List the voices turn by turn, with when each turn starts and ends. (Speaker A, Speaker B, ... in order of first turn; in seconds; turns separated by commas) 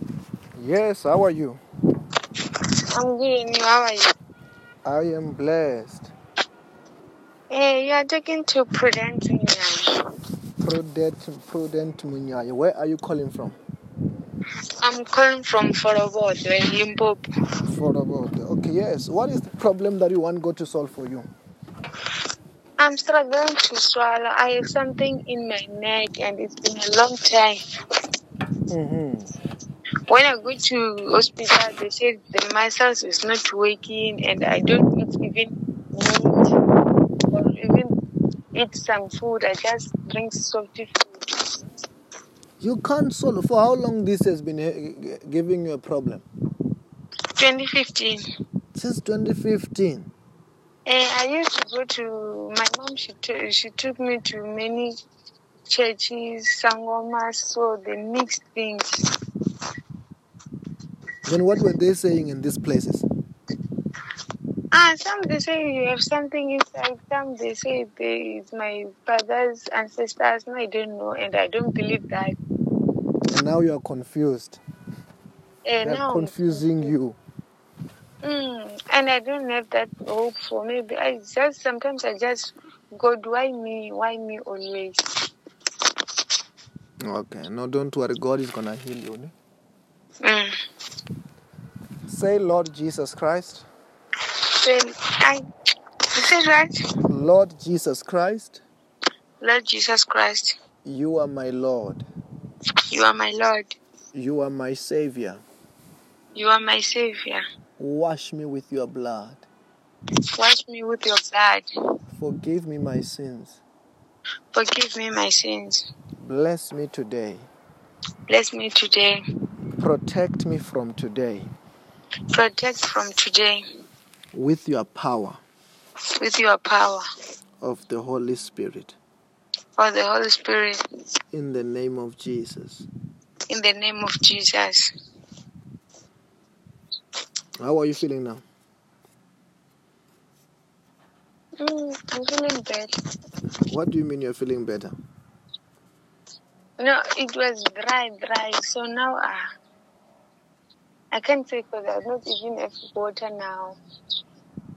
Speaker A: 0.6-1.6, Speaker B: 2.9-4.1, Speaker A: 4.8-6.1, Speaker B: 7.5-10.0, Speaker A: 10.6-13.6, Speaker B: 14.8-17.2, Speaker A: 17.7-21.3, Speaker B: 22.8-27.6, Speaker A: 28.7-29.3, Speaker B: 30.1-36.5, Speaker B: 37.2-37.9, Speaker B: 38.5-41.5, Speaker A: 42.6-46.2, Speaker B: 47.4-48.2, Speaker A: 48.8-50.1, Speaker B: 50.9-54.9, Speaker B: 55.7-59.1, Speaker A: 61.3-63.1, Speaker B: 64.7-72.3, Speaker A: 73.3-74.6, Speaker B: 75.7-76.8, Speaker A: 75.8-77.2, Speaker B: 78.2-85.0, Speaker A: 87.0-89.3, Speaker B: 90.2-90.6, Speaker A: 92.1-93.7, Speaker B: 94.3-95.5, Speaker B: 96.1-96.8, Speaker A: 97.0-98.6, Speaker B: 99.4-100.5, Speaker A: 100.8-102.0, Speaker B: 102.9-103.8, Speaker A: 104.1-105.4, Speaker B: 106.3-107.4, Speaker A: 107.8-109.5, Speaker B: 110.3-111.7, Speaker A: 112.2-113.6, Speaker B: 114.5-115.8, Speaker A: 116.2-117.5, Speaker B: 118.3-119.2, Speaker A: 119.8-121.5, Speaker B: 122.3-123.7, Speaker A: 124.3-125.4, Speaker B: 126.2-127.0, Speaker A: 127.6-128.9, Speaker B: 129.8-130.8, Speaker A: 131.3-132.9, Speaker B: 133.5-134.9, Speaker A: 137.6-138.4, Speaker B: 141.6-142.9, Speaker A: 143.6-144.9, Speaker B: 146.8-149.4, Speaker B: 151.1-153.8